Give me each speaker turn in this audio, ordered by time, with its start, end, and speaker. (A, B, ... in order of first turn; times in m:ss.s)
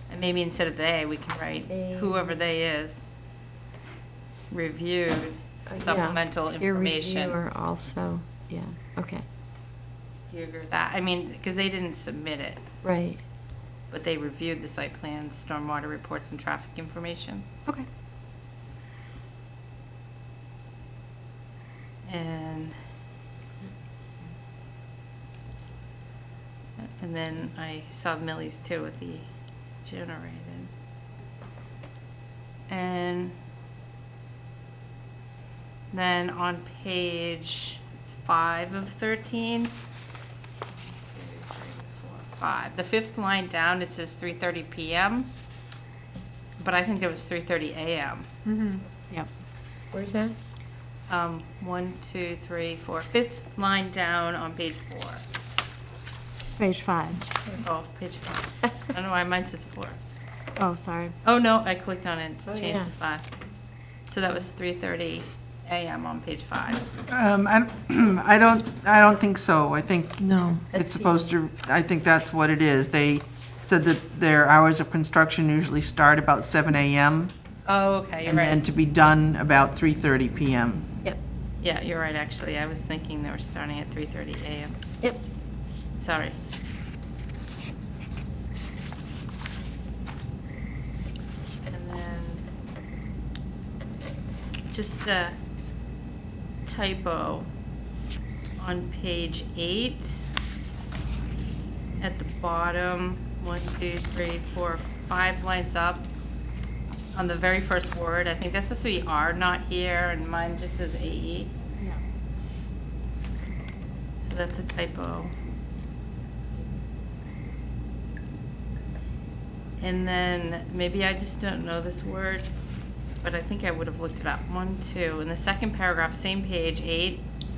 0:00.1-0:03.1 A
0:01.7-0:02.4 B
0:04.5-0:07.4 A
0:05.7-0:09.2 B
0:10.3-0:12.6 A
0:12.8-0:13.2 B
0:13.9-0:17.5 A
0:22.1-0:22.8 A
0:26.8-0:29.3 A
0:29.8-0:30.7 A
0:32.7-0:33.4 A
0:35.9-0:39.8 A
0:40.8-0:45.3 A
0:46.6-0:48.3 A
0:48.4-0:49.3 C
0:49.9-0:50.4 B
0:51.1-0:55.2 A
0:56.6-0:57.2 C
0:57.6-1:00.0 A
1:00.6-1:01.1 C
1:01.2-1:03.3 A
1:02.5-1:02.9 B
1:04.1-1:06.9 A
1:07.1-1:17.3 D
1:10.4-1:11.2 B
1:17.7-1:18.6 A
1:18.2-1:20.9 D
1:21.6-1:24.8 A
1:26.0-1:26.4 A
1:31.7-1:32.4 A
1:34.7-1:35.4 A
1:36.7-1:37.5 A
1:38.6-1:40.3 A
1:42.0-1:46.1 A
1:47.1-1:51.6 A
1:54.2-1:55.3 A
1:59.8-2:02.5 A
2:03.2-2:07.2 A